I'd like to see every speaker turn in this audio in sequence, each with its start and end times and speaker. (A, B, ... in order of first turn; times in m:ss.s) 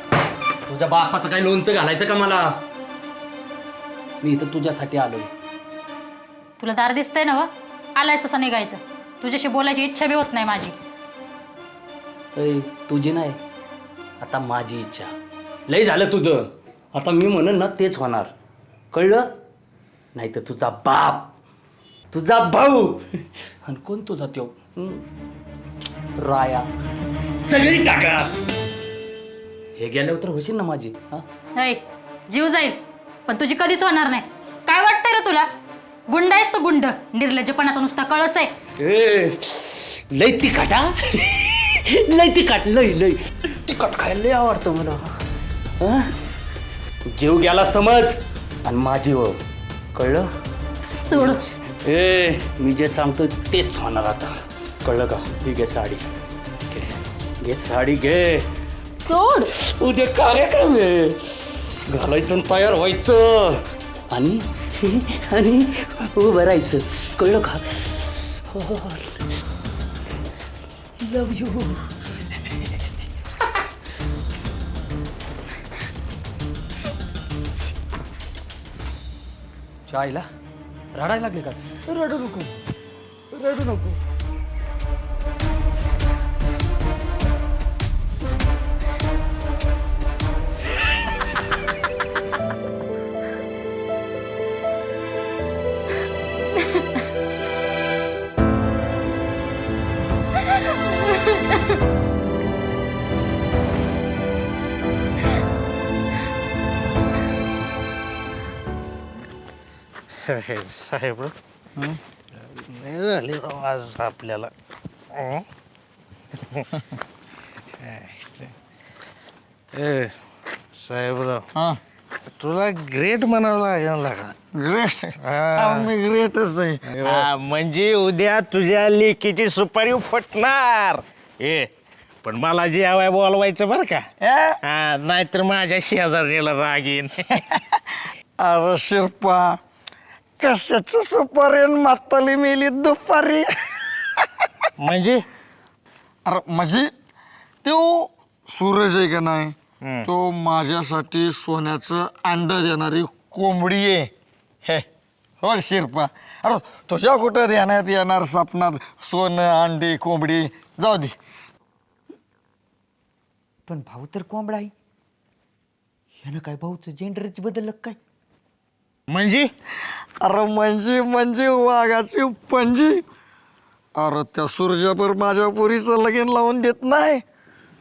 0:00.7-0:02.6 A
0:04.2-0:05.3 A
0:06.6-0:10.8 B
0:12.4-0:13.4 A
0:14.2-0:15.1 A
0:15.7-0:18.3 A
0:18.9-0:19.3 A
0:20.2-0:21.3 A
0:22.1-0:23.0 A
0:23.6-0:25.0 A
0:26.2-0:26.7 A
0:27.4-0:28.3 A
0:29.8-0:31.2 A
0:31.6-0:35.5 B
0:36.1-0:38.5 B
0:38.8-0:45.0 A
0:45.8-0:46.1 A
0:47.1-0:49.4 A
0:49.9-0:50.3 A
0:51.0-0:51.4 B
0:51.1-0:54.3 A
0:54.8-0:56.0 A
0:56.7-0:58.4 A
0:59.0-0:59.5 B
0:59.6-1:09.2 A
1:11.0-1:11.9 A
1:19.9-1:20.2 A
1:21.0-1:21.8 A
1:23.4-1:23.9 A
1:41.0-1:41.6 B
1:50.8-1:51.3 C
1:52.6-1:54.5 C
1:55.1-1:55.4 C
1:57.9-1:58.5 C
1:59.7-2:00.1 C
2:00.8-2:01.4 C
2:02.4-2:04.4 C
2:04.5-2:07.2 D
2:05.2-2:05.8 C
2:07.0-2:11.6 E
2:12.2-2:14.0 E
2:14.2-2:14.6 D
2:14.7-2:17.1 E
2:18.4-2:19.6 D
2:20.4-2:23.5 D
2:24.8-2:25.2 E
2:26.2-2:26.9 D
2:27.6-2:34.1 D
2:35.4-2:41.1 D
2:43.7-2:44.7 F
2:46.2-2:48.0 F
2:49.1-2:49.5 E
2:50.2-2:53.0 D
2:54.0-2:57.2 D